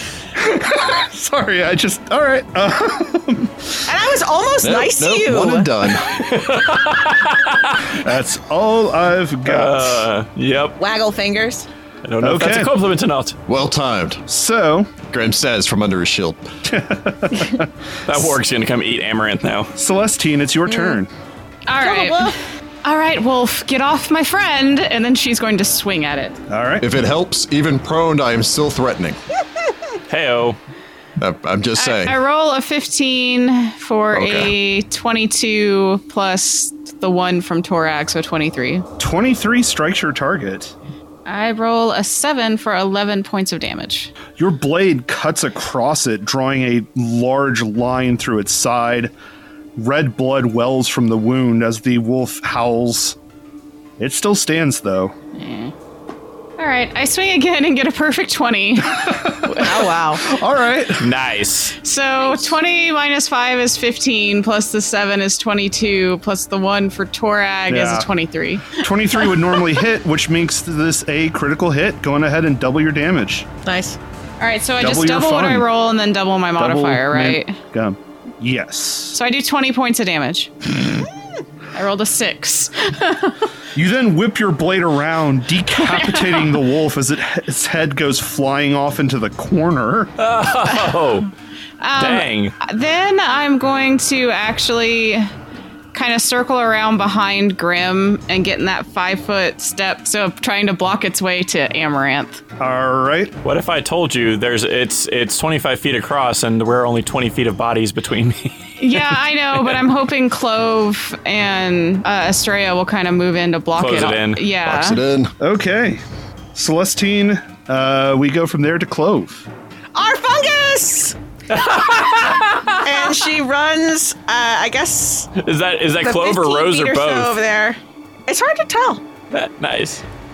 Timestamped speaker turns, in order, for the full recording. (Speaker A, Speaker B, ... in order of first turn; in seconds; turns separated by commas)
Speaker A: 0.3-3.9, Speaker B: 3.9-5.7, Speaker C: 4.6-6.3, Speaker D: 6.0-7.9, Speaker A: 7.9-10.1, Speaker D: 9.4-10.8, Speaker B: 10.8-11.7, Speaker D: 12.0-13.3, Speaker A: 12.2-12.7, Speaker C: 13.5-14.2, Speaker A: 14.3-14.9, Speaker C: 15.1-16.4, Speaker A: 16.6-18.3, Speaker D: 18.1-19.7, Speaker A: 19.7-21.1, Speaker B: 20.6-21.0, Speaker E: 21.7-26.4, Speaker B: 21.8-22.4, Speaker A: 26.5-26.9, Speaker C: 26.8-29.2, Speaker D: 30.1-30.6, Speaker C: 31.2-32.2, Speaker E: 31.8-38.9, Speaker C: 34.1-34.5, Speaker A: 39.0-40.7, Speaker E: 41.2-44.1, Speaker A: 44.3-49.1, Speaker A: 49.8-53.2, Speaker A: 54.0-55.1, Speaker E: 55.3-55.7, Speaker E: 56.6-59.5, Speaker A: 58.8-61.1, Speaker B: 59.6-60.2, Speaker D: 61.0-61.8, Speaker E: 61.8-68.8, Speaker A: 67.7-68.1, Speaker A: 68.7-73.5, Speaker B: 73.6-74.0, Speaker E: 74.4-77.6, Speaker A: 74.8-75.7, Speaker A: 76.6-79.2, Speaker E: 79.1-80.5, Speaker E: 81.7-83.5, Speaker A: 83.7-90.1, Speaker E: 85.9-86.5, Speaker D: 90.2-91.3, Speaker E: 91.8-95.3, Speaker D: 92.0-92.5, Speaker E: 95.9-102.4, Speaker A: 102.6-103.3, Speaker D: 103.4-109.8, Speaker E: 108.8-115.0, Speaker D: 113.8-114.4, Speaker C: 114.7-115.3, Speaker A: 115.4-116.0, Speaker A: 116.5-119.5, Speaker B: 119.9-121.2, Speaker D: 121.5-122.8, Speaker B: 121.7-125.3, Speaker D: 125.3-127.4, Speaker B: 126.0-129.0, Speaker D: 129.3-130.0